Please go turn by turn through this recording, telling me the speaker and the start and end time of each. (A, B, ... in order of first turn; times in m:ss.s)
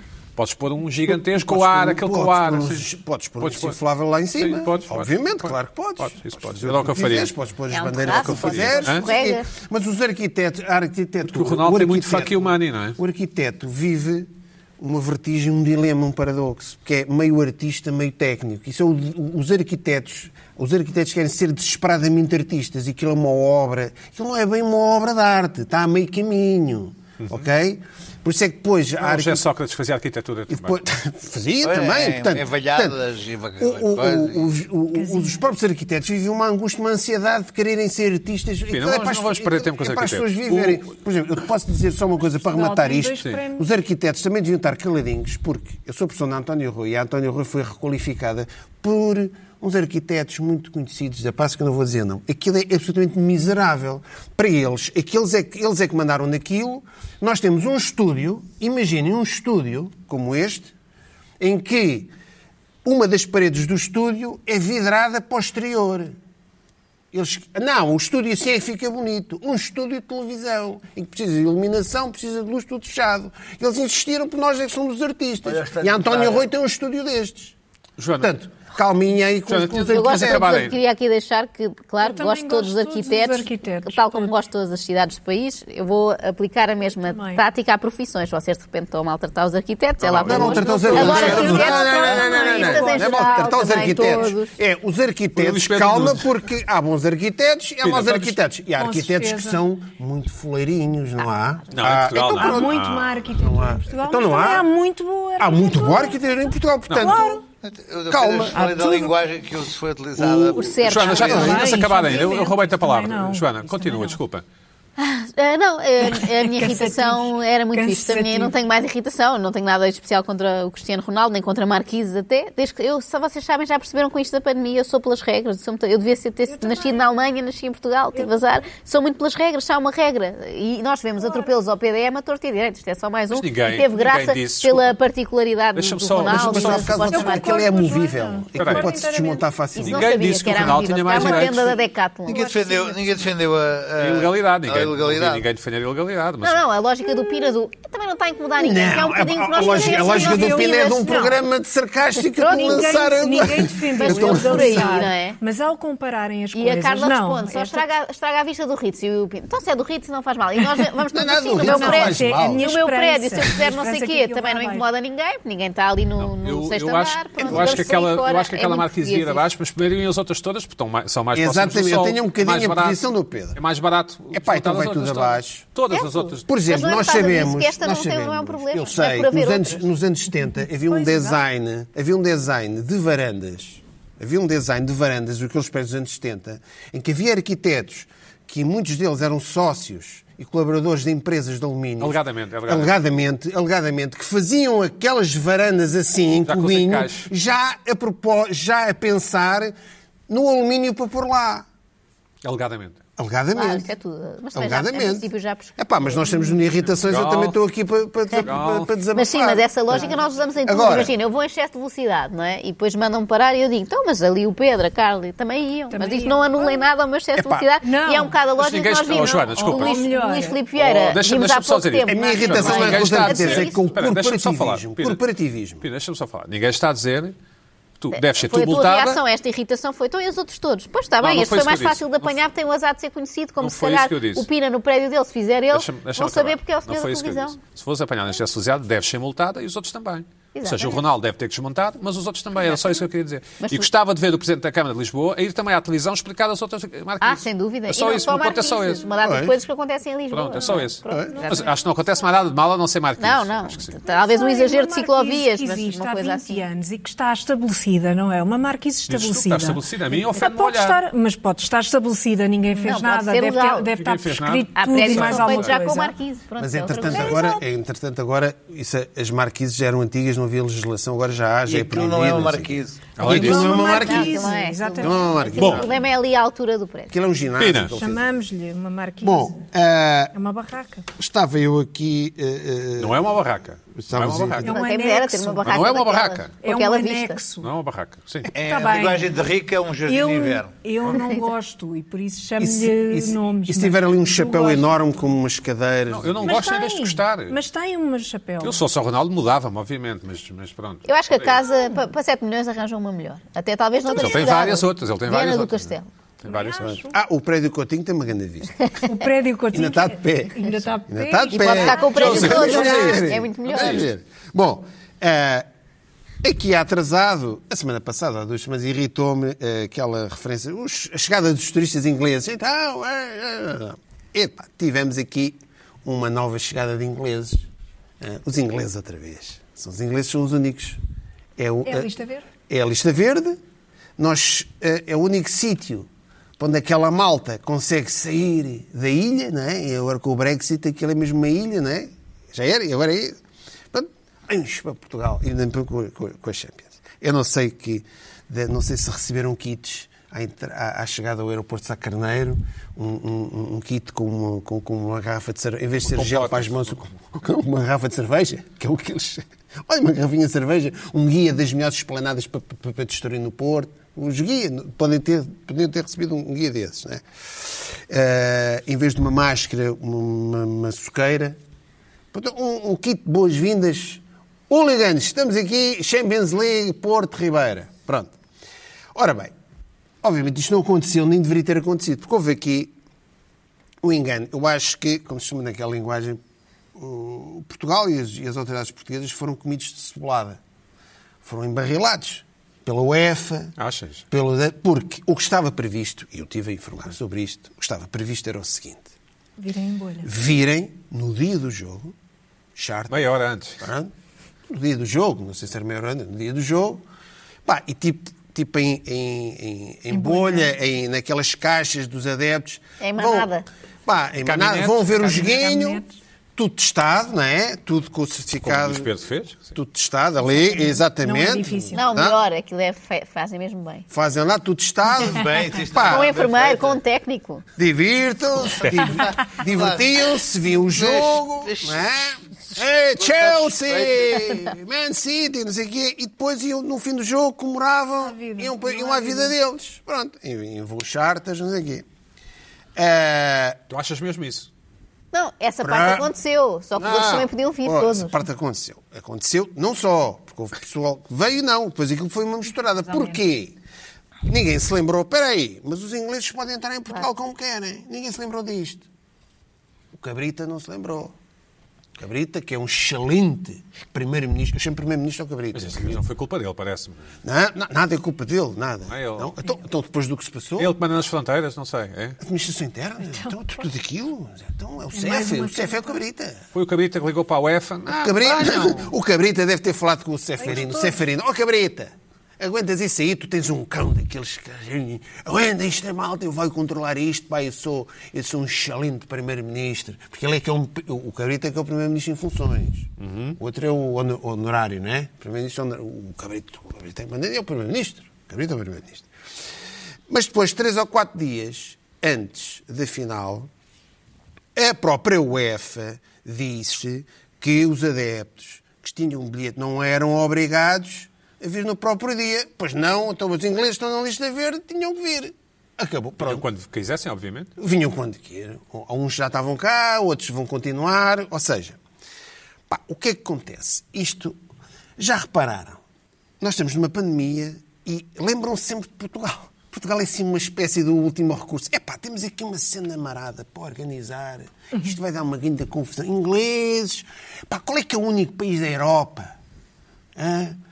0:00.4-0:02.9 A
0:01.1-0:29.4 B
0:03.4-0:03.8 A
0:04.4-0:07.3 A
0:07.7-0:09.5 C
0:08.0-0:09.1 A
0:11.3-0:13.0 A
0:29.0-0:30.8 A
0:30.5-0:33.0 B
0:31.6-0:34.5 D
0:33.6-1:00.7 B
0:34.9-0:35.4 E
0:38.7-0:40.8 A
0:42.4-0:43.6 E
1:01.4-1:02.1 B
1:02.8-1:06.2 B
1:07.1-1:17.6 B
1:15.4-1:16.5 D
1:18.0-1:18.3 A
1:18.2-1:20.7 B
1:19.5-1:20.8 A
1:19.8-1:34.5 C
1:22.0-1:24.3 E
1:27.1-1:27.4 E
1:30.0-1:31.7 A
1:30.2-1:42.8 B
1:30.7-1:34.2 E
1:35.4-1:36.3 A
1:37.8-1:38.4 A
1:38.8-1:39.6 E
1:41.7-1:43.2 A
1:42.3-1:46.2 E
1:43.4-1:44.7 B
1:45.4-1:47.4 B
1:46.9-1:47.1 A
1:47.0-1:47.4 E
1:47.6-1:51.8 D
1:48.1-1:48.6 B
1:48.5-1:49.2 E
1:50.2-1:50.6 B
1:50.5-1:51.7 C
1:50.8-1:54.4 A
1:51.2-1:54.2 E
1:51.2-1:51.6 B
1:55.0-2:17.7 C
1:56.0-1:58.5 E
2:06.5-2:07.1 E
2:11.2-2:11.5 E
2:13.3-2:15.0 A
2:15.8-2:17.1 A
2:16.2-2:20.8 B
2:17.1-2:19.4 E
2:18.6-2:18.9 A
2:19.8-2:22.5 C
2:19.8-2:21.8 A
2:22.3-2:25.5 D
2:22.3-2:23.3 E
2:24.0-2:26.6 A
2:26.4-2:31.1 C
2:28.6-2:35.1 B
2:29.5-2:31.4 E
2:32.4-2:33.1 C
2:32.4-2:37.9 E
2:34.0-2:35.4 C
2:36.5-2:49.4 C
2:41.1-2:42.7 B
2:41.6-2:44.9 E
2:46.2-2:53.0 A
2:47.4-2:47.9 B
2:51.3-2:53.6 B
2:53.6-2:56.5 A
2:54.3-2:55.6 B
2:55.9-2:59.8 C
2:56.5-3:19.8 B
3:00.9-3:01.4 E
3:12.0-3:13.0 A
3:16.5-3:17.3 A
3:20.3-3:21.6 B
3:22.4-3:23.0 A
3:23.2-3:23.9 B
3:23.5-3:26.4 C
3:24.5-3:30.1 B
3:27.0-3:27.6 A
3:28.4-3:28.9 A
3:29.1-3:43.8 C
3:30.6-3:31.2 B
3:35.9-3:36.9 E
3:37.4-3:37.7 B
3:37.8-3:38.4 E
3:38.6-3:40.1 A
3:39.1-3:40.6 E
3:40.8-3:45.2 A
3:42.1-3:45.8 B
3:45.8-3:47.4 A
3:48.0-3:49.2 A
3:48.1-3:57.6 C
3:51.2-3:52.4 A
3:53.6-3:54.5 A
3:55.7-4:09.0 A
4:00.6-4:01.0 C
4:03.6-4:03.9 C
4:07.2-4:11.6 C
4:09.2-4:09.6 B
4:10.3-4:14.0 A
4:11.1-4:11.4 B
4:11.3-4:11.8 E
4:13.2-4:16.6 C
4:14.1-4:26.2 E
4:19.1-4:21.0 A
4:22.7-4:23.9 C
4:23.9-4:25.8 A
4:24.8-4:27.5 C
4:26.6-4:35.9 B
4:27.0-4:27.6 E
4:31.7-4:33.1 D
4:33.2-4:33.7 A
4:33.2-4:35.4 E
4:33.7-4:37.1 C
4:35.6-4:35.8 A
4:37.1-4:38.4 B
4:37.6-4:38.0 A
4:38.0-4:39.6 E
4:39.2-4:40.3 B
4:40.3-4:41.1 E
4:41.2-4:43.2 B
4:43.0-4:44.7 A
4:43.9-4:44.6 B
4:44.6-4:45.8 E
4:44.7-4:47.4 C
4:45.6-4:46.5 A
4:46.6-4:47.7 E
4:47.6-4:48.5 A
4:48.5-4:50.7 D
4:48.6-4:49.3 E
4:50.1-4:55.0 E
4:52.6-4:56.6 B
4:56.1-4:57.6 A
4:56.4-4:58.8 E
4:58.6-5:01.6 A
5:01.1-5:06.1 C
5:04.1-5:06.9 A
5:06.4-5:07.1 E
5:06.8-5:08.9 B
5:09.0-5:13.2 E
5:09.7-5:15.7 B
5:11.5-5:14.1 C
5:12.2-5:14.1 A
5:16.4-5:27.7 B
5:28.2-5:31.0 B
5:31.6-5:32.1 B
5:31.8-5:32.5 E
5:32.7-5:33.6 B
5:34.2-5:43.4 B
5:43.9-6:11.6 B
5:56.0-5:57.2 A
6:12.3-6:18.4 B
6:19.1-6:19.5 B
6:20.2-6:22.9 B
6:24.0-6:26.4 B
6:27.0-6:30.6 B
6:31.4-6:33.8 B
6:33.8-6:34.2 A
6:34.3-6:39.1 B
6:39.6-6:40.3 E
6:40.2-6:42.1 B
6:42.8-6:43.2 B
6:43.1-6:43.8 A
6:43.8-6:44.1 B
6:44.7-6:47.0 B
6:47.6-6:53.5 B
6:50.1-6:50.7 E
6:53.0-6:53.7 C
6:54.1-6:56.0 B
6:54.4-6:55.5 A
6:55.2-6:56.1 E
6:56.6-6:59.1 B
6:58.6-6:59.7 A
6:59.7-7:02.4 B
7:00.7-7:02.0 E
7:02.0-7:04.1 C
7:04.1-7:06.3 B
7:05.2-7:07.0 D
7:06.0-7:07.6 C
7:07.8-7:22.0 B
7:08.8-7:12.2 D
7:12.8-7:14.6 D
7:18.2-7:19.5 E
7:23.0-7:23.8 B
7:23.9-7:24.7 A
7:25.3-7:28.3 C
7:25.8-7:26.3 B
7:27.0-7:33.8 B
7:33.1-7:33.4 E
7:34.5-7:39.1 B
7:40.1-7:41.3 B
7:42.2-7:46.2 B
7:45.7-7:47.3 A
7:47.4-7:51.0 B
7:49.1-7:49.5 A
7:50.8-7:52.4 A
7:52.4-7:56.6 B
7:53.3-7:53.6 E
7:55.1-7:56.1 E
7:56.7-7:59.1 A
7:58.1-8:19.3 B
8:00.6-8:01.2 E
8:13.2-8:13.6 A
8:20.3-8:23.7 B
8:24.8-8:36.6 B
8:36.4-8:37.7 A
8:37.8-8:42.0 B
8:42.9-8:44.6 B
8:45.2-8:46.0 B
8:46.6-8:59.5 B
9:00.4-9:00.8 B